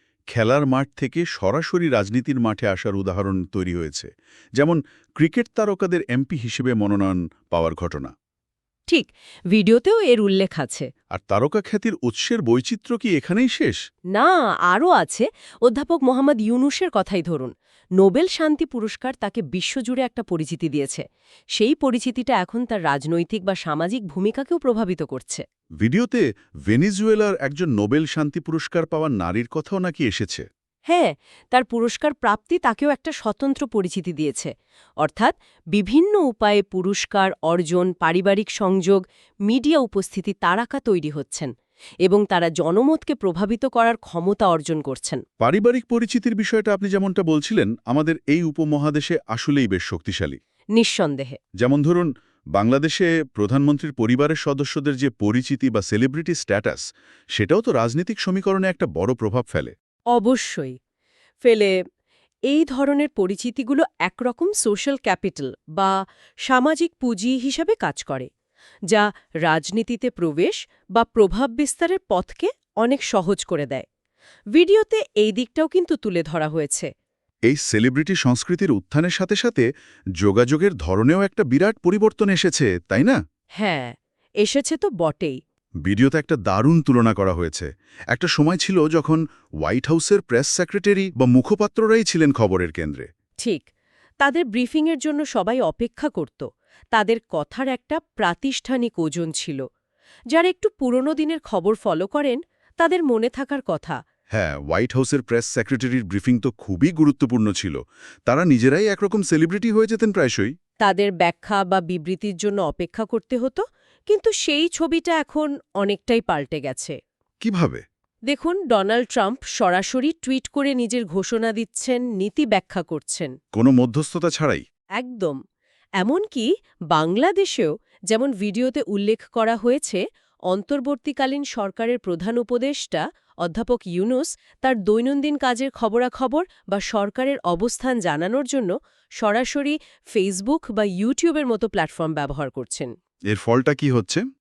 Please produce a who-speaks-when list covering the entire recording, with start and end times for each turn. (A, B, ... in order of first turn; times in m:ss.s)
0:00.3-0:08.1 A
0:08.9-0:10.9 B
0:11.1-0:13.8 A
0:14.1-0:21.0 B
0:21.6-0:25.4 B
0:25.8-0:30.4 A
0:30.9-0:41.5 B
0:42.0-0:45.2 B
0:45.4-0:50.4 A
0:50.7-0:51.4 B
0:51.6-0:56.8 A
0:57.3-0:59.7 A
1:00.1-1:00.8 B
1:01.4-1:01.7 B
1:02.5-1:05.9 B
1:06.5-1:08.3 B
1:08.9-1:13.8 B
1:14.6-1:16.9 B
1:17.5-1:19.7 A
1:20.2-1:23.2 A
1:23.6-1:25.4 B
1:25.8-1:33.0 A
1:33.4-1:33.6 B
1:34.2-1:39.6 B
1:40.3-1:44.0 B
1:44.3-1:50.5 A
1:50.8-1:57.0 B
1:57.4-1:57.8 A
1:58.3-2:03.3 B
2:03.5-2:04.6 A
2:05.0-2:05.4 B
2:06.0-2:22.9 B
2:23.3-2:24.2 A